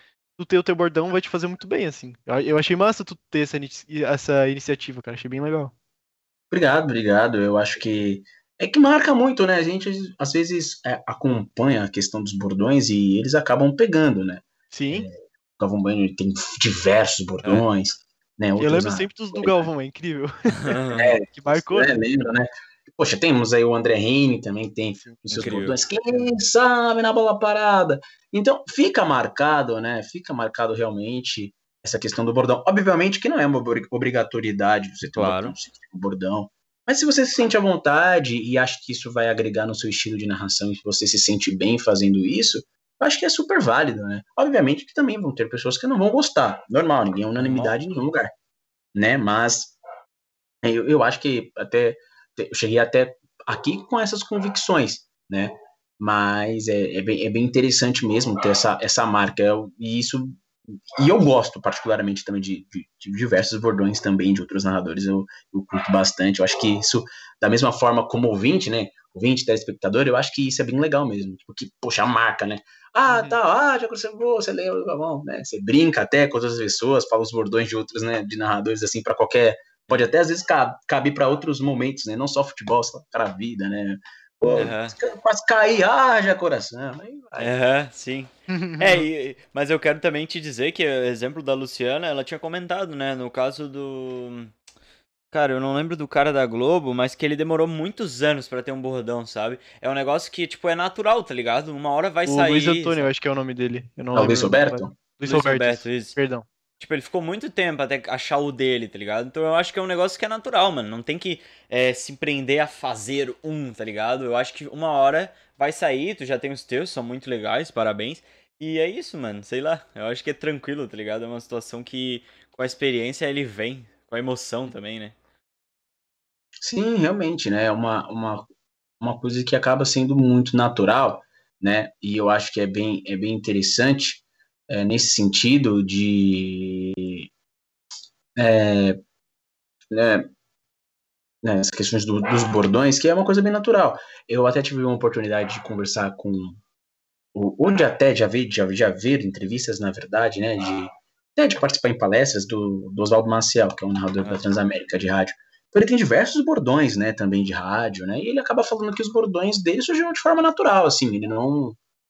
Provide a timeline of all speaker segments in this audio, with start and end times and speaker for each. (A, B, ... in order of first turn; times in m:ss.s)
0:00.4-0:05.7 A
0:06.5-0:19.7 B
0:14.7-0:15.1 A
0:18.6-0:22.0 A
0:20.6-0:21.1 C
0:21.0-0:48.3 B
0:25.3-0:25.7 C
0:35.1-0:35.5 C
0:47.4-0:47.8 C
0:48.9-0:49.8 B
0:50.6-1:00.4 B
1:01.0-1:27.5 B
1:13.1-1:13.4 A
1:24.4-1:24.7 A
1:24.5-1:24.9 C
1:27.4-1:34.5 C
1:28.5-1:29.0 A
1:35.3-1:43.1 C
1:42.2-1:46.5 A
1:44.1-1:45.0 B
1:45.2-1:46.2 C
1:46.8-2:05.1 C
2:06.6-2:08.4 B
2:09.0-2:17.3 B
2:18.4-2:19.0 B
2:19.9-2:20.3 B
2:21.4-2:26.6 B
2:27.3-2:41.8 B
2:34.2-2:34.5 C